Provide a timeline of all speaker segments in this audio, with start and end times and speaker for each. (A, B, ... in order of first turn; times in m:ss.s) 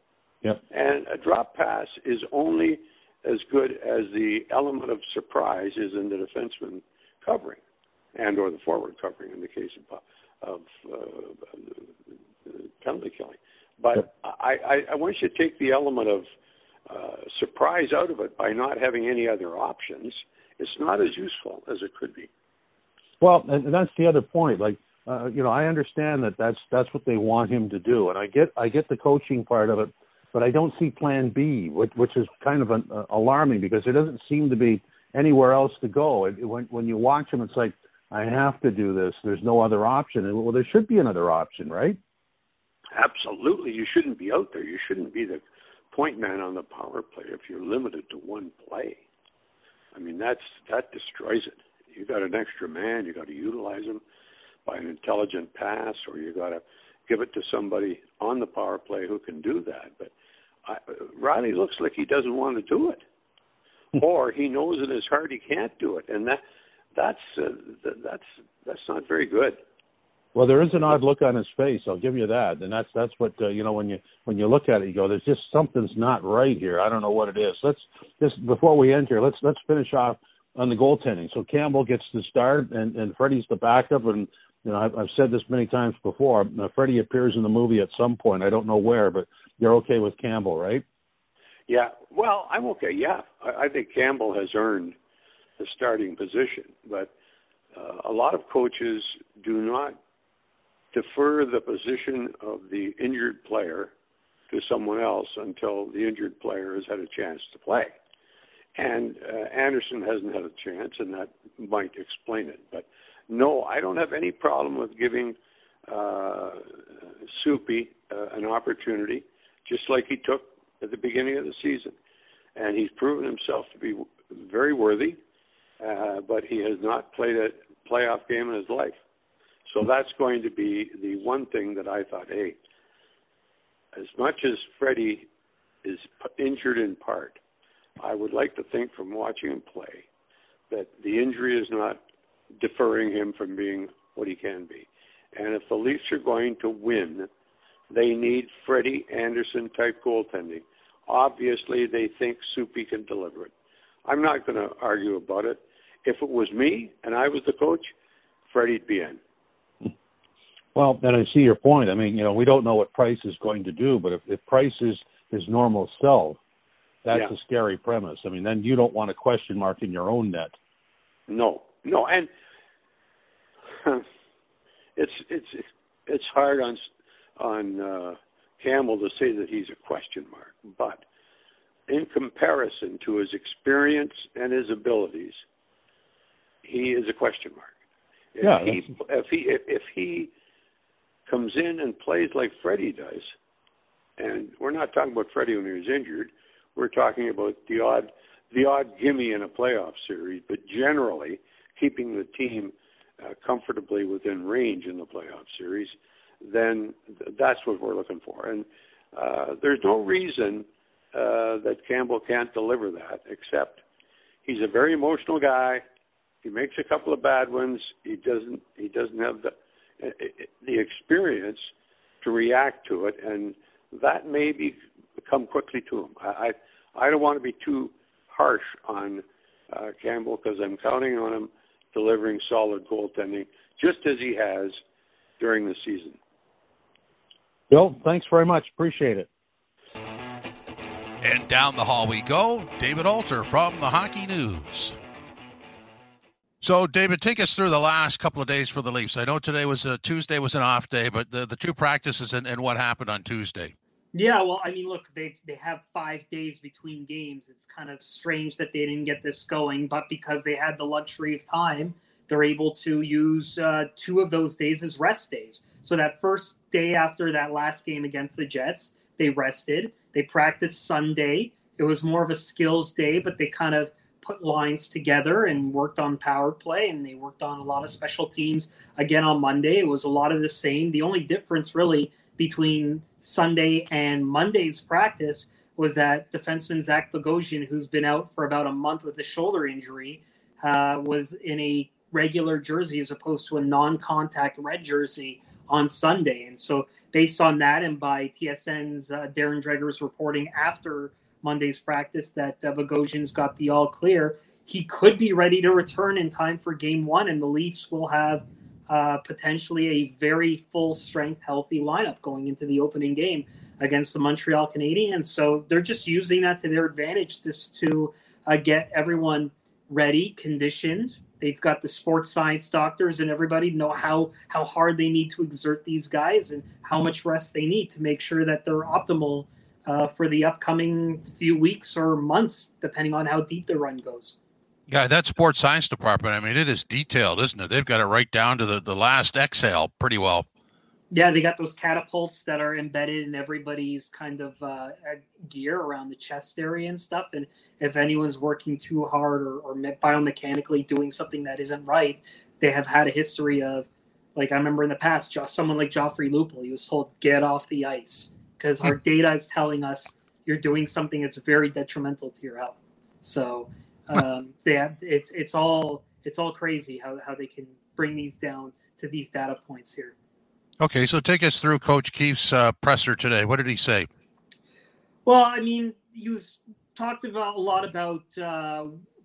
0:00.7-0:07.6 A
0:08.2-0:11.8 A
0:12.5-0:16.2 A
0:16.9-0:22.3 A
0:23.2-0:42.0 B
0:42.9-0:45.4 A
0:45.9-0:49.0 A
0:50.0-0:54.0 A
0:54.7-1:00.1 A
1:00.6-1:03.0 A
1:04.0-1:06.4 A
1:07.0-1:09.6 A
1:10.4-1:30.8 B
1:31.7-1:35.0 A
1:35.6-1:37.1 A
1:37.7-1:40.0 A
1:40.9-1:43.9 A
1:44.5-1:47.9 A
1:48.8-1:55.4 A
1:55.9-1:56.7 A
1:57.3-2:01.9 A
2:02.6-2:05.2 A
2:05.8-2:09.0 A
2:09.7-2:12.6 A
2:13.9-2:15.3 A
2:15.8-2:17.4 A
2:18.0-2:20.0 A
2:20.7-2:22.0 A
2:22.6-2:27.3 A
2:27.9-2:33.5 A
2:34.1-2:37.9 A
2:38.5-2:39.2 A
2:40.8-2:46.4 B
2:47.0-2:50.5 B
2:51.3-2:52.3 A
2:55.0-2:56.8 A
2:57.4-3:01.0 A
3:01.9-3:05.4 A
3:06.6-3:07.7 A
3:08.4-3:10.3 A
3:08.4-3:08.9 B
3:11.3-3:13.3 A
3:14.2-3:33.8 A
3:34.4-3:35.8 A
3:36.4-3:41.6 A
3:42.2-3:54.8 A
3:55.4-3:56.2 A
3:57.7-3:59.3 B
4:01.2-4:05.0 C
4:06.6-4:13.7 C
4:14.1-5:34.4 D
5:34.9-5:40.5 C
5:41.1-6:10.1 D
6:10.8-6:14.1 C
6:15.3-6:19.0 D